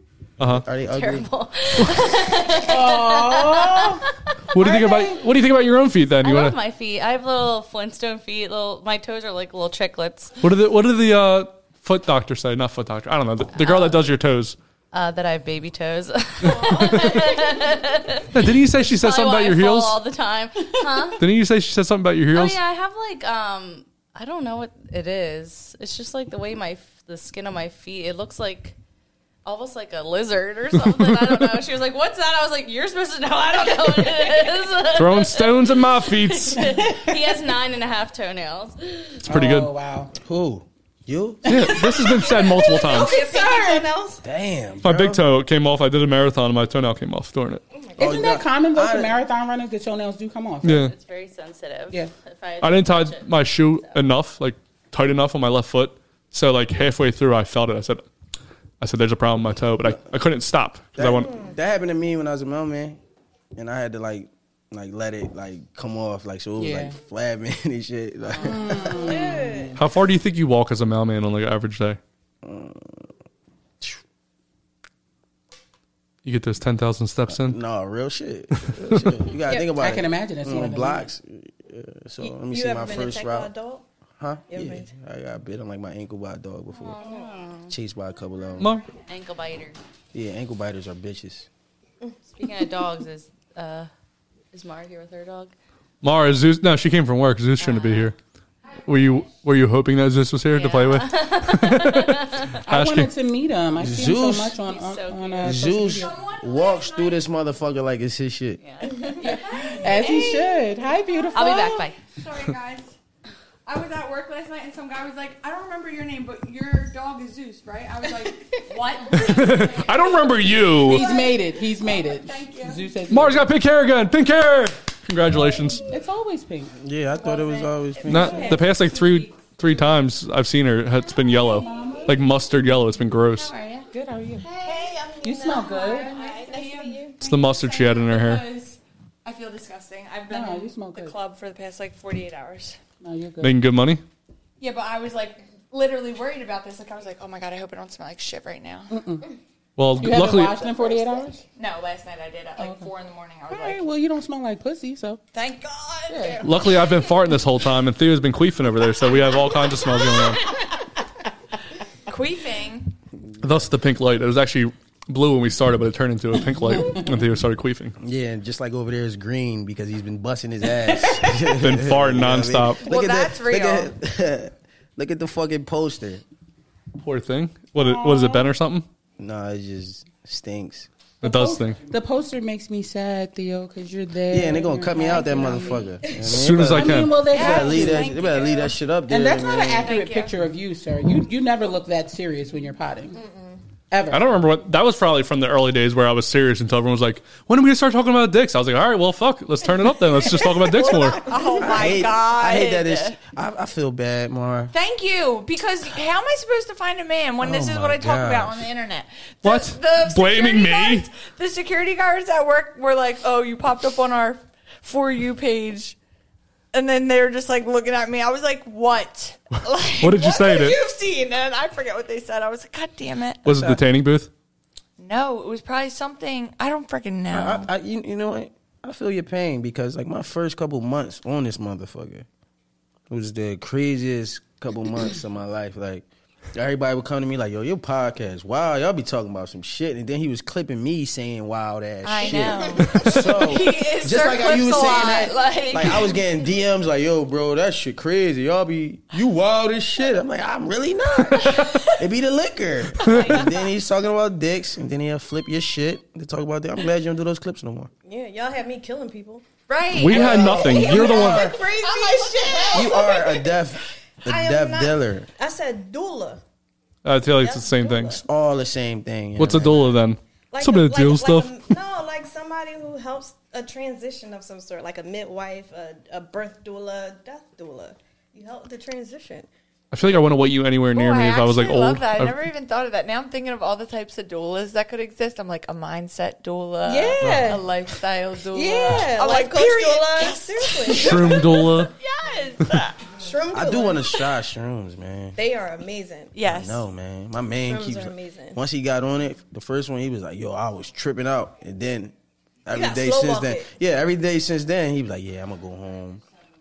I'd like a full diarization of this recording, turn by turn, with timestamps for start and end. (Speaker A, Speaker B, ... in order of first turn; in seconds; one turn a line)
Speaker A: 0.4-0.7
Speaker B: 0.5-1.3
Speaker C: 0.8-4.9
Speaker D: 2.6-4.0
Speaker A: 4.5-6.6
Speaker D: 4.6-5.2
Speaker C: 6.2-10.4
Speaker A: 10.4-14.6
Speaker C: 13.6-14.0
Speaker C: 14.9-21.3
Speaker A: 16.9-17.2
Speaker A: 18.3-20.0
Speaker A: 21.2-22.6
Speaker C: 22.3-28.8
Speaker C: 29.4-39.2
Speaker A: 34.9-36.6
Speaker D: 36.6-37.1
Speaker D: 39.2-40.1
Speaker A: 39.3-39.7
Speaker B: 40.1-41.7
Speaker D: 41.4-42.4
Speaker A: 41.4-43.2
Speaker E: 42.0-44.2
Speaker D: 42.9-43.9
Speaker B: 44.2-45.2
Speaker A: 44.8-47.6
Speaker E: 47.7-48.0
Speaker B: 48.0-49.1
Speaker D: 48.0-50.8
Speaker A: 50.6-50.9
Speaker C: 50.7-54.0
Speaker A: 52.6-58.0
Speaker A: 58.8-61.3
Speaker B: 60.9-63.0
Speaker E: 61.2-61.5
Speaker B: 63.5-69.3
Speaker D: 66.6-67.0
Speaker D: 68.3-69.8
Speaker E: 68.9-69.8
Speaker A: 69.8-72.0
Speaker B: 72.4-73.1
Speaker A: 76.2-77.6
Speaker B: 77.3-83.5
Speaker A: 78.6-79.1
Speaker E: 79.5-79.7
Speaker D: 79.7-81.1
Speaker E: 82.2-83.8
Speaker B: 84.2-87.1
Speaker E: 84.5-84.9
Speaker C: 86.7-87.7
Speaker B: 87.7-88.7
Speaker A: 88.6-88.8
Speaker C: 88.9-89.8
Speaker B: 90.1-91.5
Speaker C: 92.3-93.9
Speaker C: 94.5-95.5
Speaker A: 96.0-98.1
Speaker C: 97.6-98.1
Speaker A: 98.8-103.1
Speaker C: 100.5-102.6
Speaker D: 102.6-106.1
Speaker B: 103.8-104.6
Speaker C: 104.5-105.7
Speaker B: 105.4-108.6
Speaker F: 106.0-107.2
Speaker C: 108.6-109.1
Speaker E: 108.8-110.9
Speaker D: 109.2-111.8
Speaker F: 109.3-110.4
Speaker F: 111.3-112.9
Speaker C: 111.3-112.0
Speaker F: 113.7-122.8
Speaker A: 119.1-121.1
Speaker D: 120.7-123.5
Speaker A: 123.1-125.8
Speaker D: 125.9-126.7
Speaker B: 126.8-128.6
Speaker E: 127.1-128.7
Speaker A: 128.1-133.5
Speaker F: 128.3-129.8
Speaker F: 131.3-132.0
Speaker D: 131.5-132.1
Speaker F: 133.3-133.9
Speaker D: 133.9-134.5
Speaker F: 134.4-142.8
Speaker E: 134.6-137.1
Speaker D: 135.2-136.2
Speaker A: 137.2-138.4
Speaker D: 140.3-141.1
Speaker D: 143.0-143.6
Speaker A: 143.4-144.0
Speaker F: 144.6-148.9
Speaker D: 148.9-149.3
Speaker A: 149.8-150.6
Speaker D: 150.0-151.4
Speaker F: 151.6-153.8
Speaker D: 152.6-152.9
Speaker D: 153.5-155.2
Speaker F: 155.3-156.4
Speaker D: 156.1-156.5
Speaker A: 156.4-160.5
Speaker F: 162.1-162.9
Speaker A: 163.4-167.9
Speaker D: 166.5-167.2
Speaker B: 168.0-176.2
Speaker A: 171.6-172.8
Speaker F: 172.8-173.9
Speaker A: 177.0-178.8
Speaker D: 177.7-178.5
Speaker B: 179.2-180.9
Speaker A: 181.2-181.8
Speaker D: 181.2-185.9
Speaker B: 184.3-189.9
Speaker A: 186.2-187.1
Speaker D: 186.6-188.1
Speaker F: 187.3-188.8
Speaker D: 189.1-193.2
Speaker F: 189.8-190.4
Speaker E: 193.1-193.6
Speaker D: 193.9-194.2
Speaker A: 194.1-201.2
Speaker E: 200.2-202.0
Speaker F: 200.8-203.2
Speaker B: 201.6-204.7
Speaker F: 204.7-216.0
Speaker B: 207.4-208.7
Speaker A: 209.4-211.1
Speaker F: 216.7-223.4
Speaker A: 220.0-220.8
Speaker A: 223.4-224.3
Speaker B: 223.5-223.8
Speaker F: 225.0-227.7
Speaker B: 227.3-232.2
Speaker B: 233.1-257.9
Speaker F: 242.0-246.2
Speaker E: 242.2-243.2
Speaker E: 253.0-253.6
Speaker E: 258.0-259.4
Speaker F: 259.7-263.2
Speaker A: 259.9-261.5
Speaker B: 260.0-261.6
Speaker E: 260.4-266.4
Speaker B: 262.7-265.3
Speaker A: 267.0-268.2
Speaker E: 267.3-268.2
Speaker B: 268.2-269.8
Speaker A: 269.4-271.5
Speaker E: 270.5-279.5
Speaker A: 279.9-282.4
Speaker F: 280.9-293.0
Speaker E: 286.9-287.6
Speaker B: 287.2-287.6
Speaker E: 288.5-291.4
Speaker A: 290.9-291.9
Speaker E: 293.1-294.1
Speaker B: 293.5-295.4
Speaker E: 295.4-296.4
Speaker F: 296.3-296.8
Speaker B: 296.4-302.1
Speaker E: 297.6-298.6
Speaker B: 302.6-306.2
Speaker E: 302.7-303.7